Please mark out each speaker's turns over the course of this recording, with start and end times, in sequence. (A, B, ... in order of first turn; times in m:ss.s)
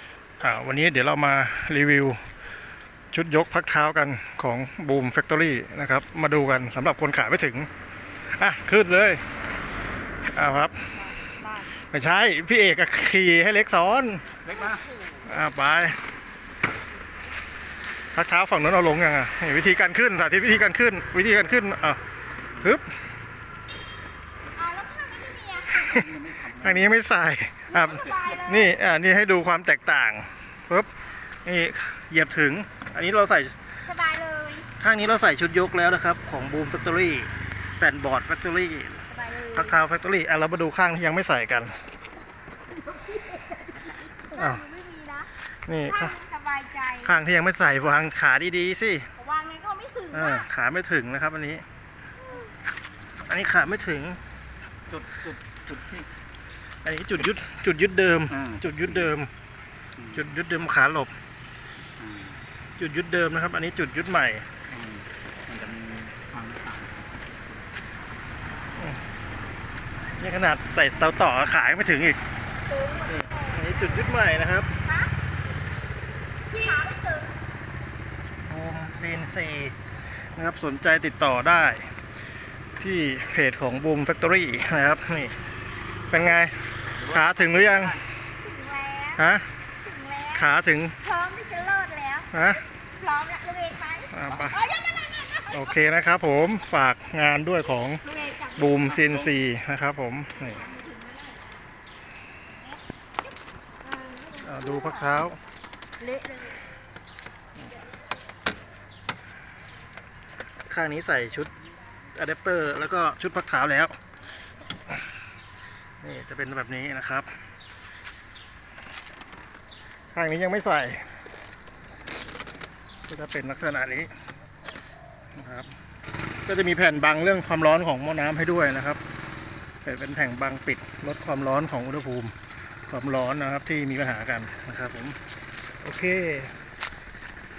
0:00.4-0:02.2 A
0:03.1-0:07.7 A
0:08.3-0:09.2 A
0:10.3-0:11.0 A
0:11.0-0:11.7 B
0:11.7-0:14.4 A
0:14.5-0:14.8 C
0:15.2-0:16.0 A
0:18.1-0:22.0 A
0:22.5-0:22.9 A
0:24.6-0:26.0 B
0:25.7-0:30.9 A
0:25.9-0:26.8 C
0:27.7-0:28.7 B
0:31.4-0:33.6 A
0:33.8-0:34.7 B
0:34.8-0:41.8 A
0:39.1-0:39.8 B
0:42.9-0:45.3 B
0:44.3-0:44.7 A
0:45.5-0:46.2 A
0:45.8-0:47.2 B
0:47.0-0:49.1 A
0:49.1-0:50.5 B
0:50.1-0:51.6 A
0:53.2-0:54.2 A
0:54.9-0:56.0 C
0:56.8-0:59.3 A
1:00.1-1:01.1 A
1:02.0-1:02.4 C
1:02.8-1:04.5 A
1:04.7-1:07.2 C
1:08.8-1:09.0 A
1:10.2-1:12.2 A
1:12.6-1:15.1 B
1:13.0-1:14.7 A
1:16.5-1:17.3 B
1:18.4-1:19.8 A
1:20.3-1:21.9 A
1:22.8-1:25.3 A
1:26.1-1:28.0 A
1:27.1-1:27.8 C
1:28.4-1:29.2 B
1:29.2-1:29.5 A
1:29.8-1:30.5 B
1:30.3-1:31.0 A
1:31.0-1:35.7 B
1:32.3-1:32.6 A
1:34.1-1:34.6 A
1:35.5-1:40.6 A
1:38.0-1:38.8 B
1:40.6-1:41.5 B
1:42.5-1:42.8 B
1:43.8-1:45.2 B
1:44.4-1:45.4 A
1:46.0-1:46.6 B
1:50.7-1:51.5 A
1:52.1-1:54.0 A
1:56.0-1:57.4 A
2:00.1-2:01.2 A
2:03.1-2:04.1 A
2:05.3-2:05.7 A
2:06.4-2:09.0 A
2:09.8-2:15.2 A
2:15.8-2:16.5 A